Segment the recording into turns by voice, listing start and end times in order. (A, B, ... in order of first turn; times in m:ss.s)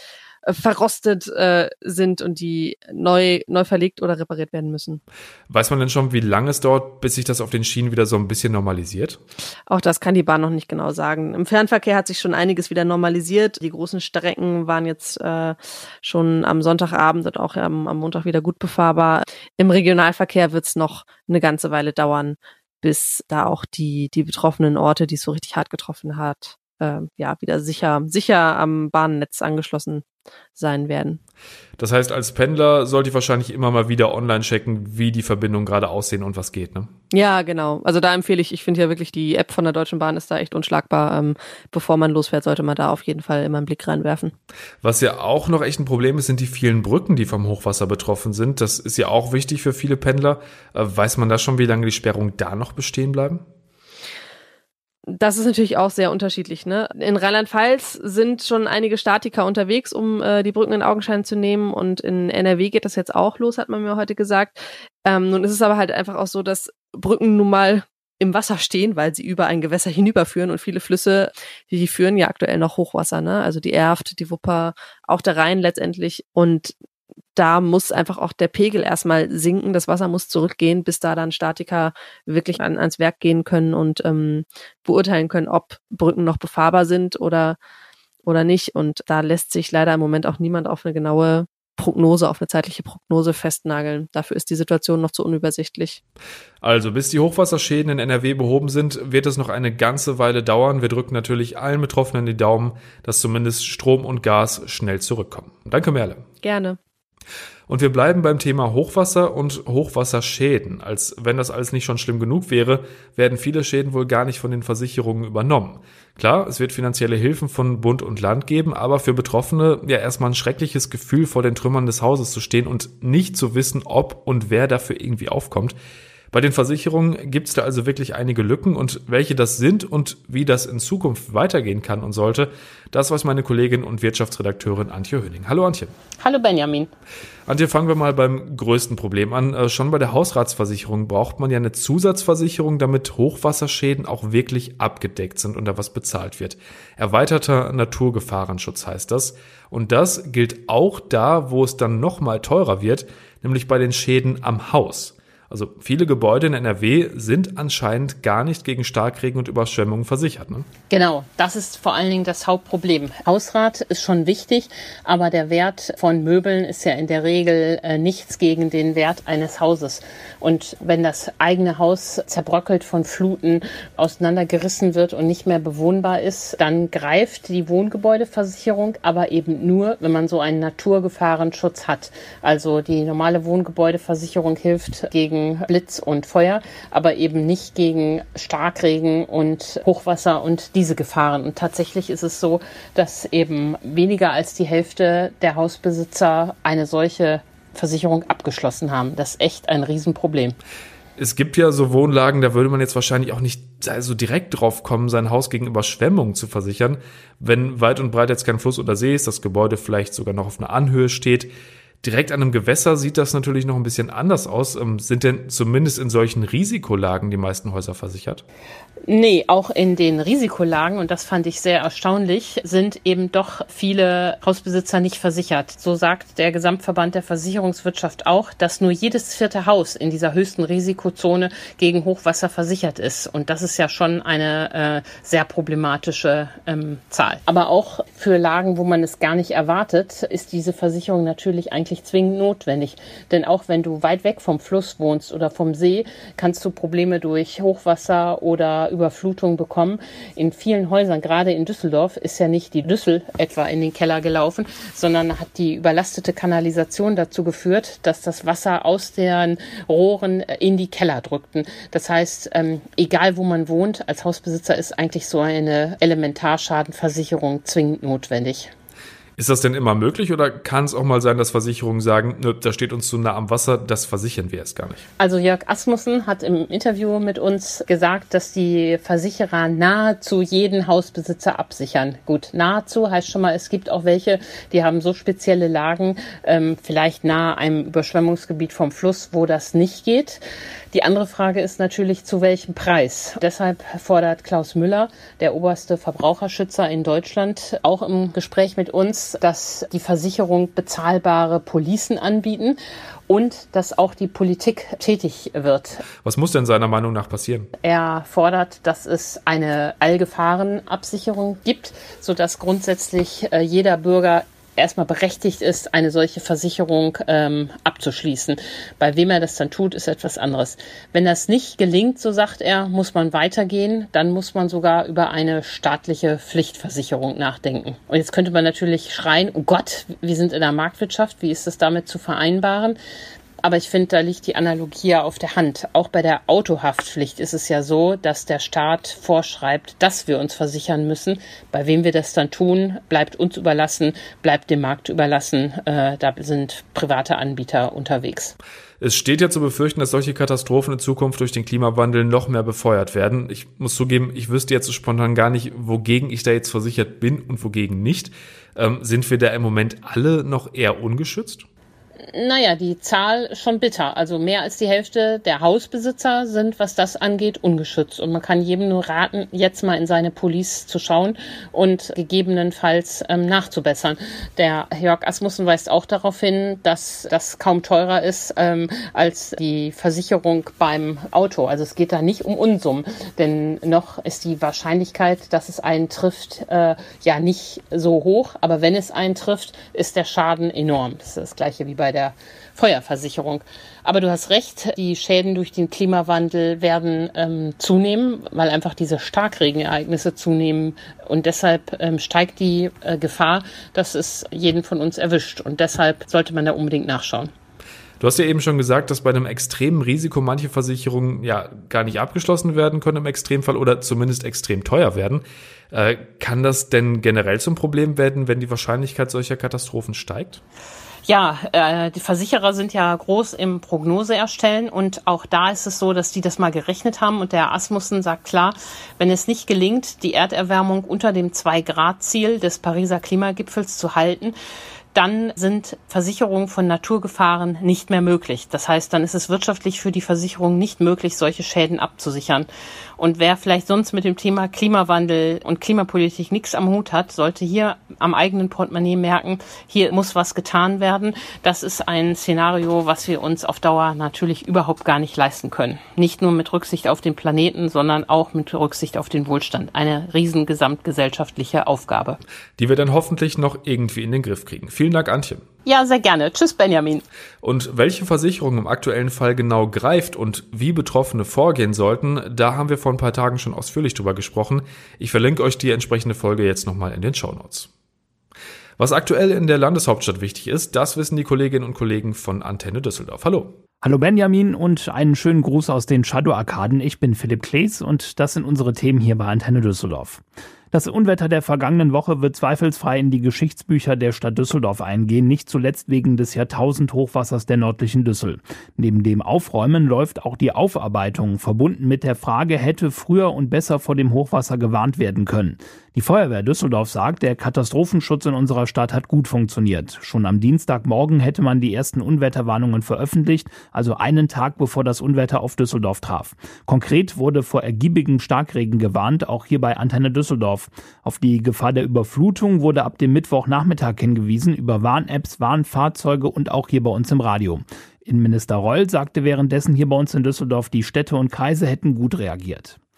0:00.4-0:05.0 A
0:05.5-0:09.2 B
0:09.7-0:31.2 A
0:31.8-0:36.9 B
0:37.1-0:44.3 A
0:44.8-0:53.4 B
0:55.1-1:16.7 A
1:17.4-1:27.6 A
1:28.2-1:36.0 A
1:36.6-1:46.2 B
1:46.4-1:46.8 A
1:47.7-2:05.8 B
2:06.3-2:15.9 B
2:16.2-2:16.9 C
2:17.5-2:40.6 B
2:40.9-3:20.6 C
3:21.2-3:31.5 B
3:32.0-3:38.4 B
3:39.1-4:28.7 C
4:29.4-4:35.0 B
4:35.2-5:06.0 C
5:06.2-5:07.7 B
5:07.8-5:33.0 C
5:33.6-5:48.5 C
5:49.0-6:01.6 B
6:02.3-6:47.5 C
6:48.2-7:00.6 B
7:01.2-7:14.6 C
7:15.1-7:22.7 C
7:23.2-7:42.4 C
7:42.8-7:45.6 B
7:45.8-7:47.2 C
7:47.6-7:57.9 B
7:59.0-8:03.8 B
8:04.0-8:53.0 D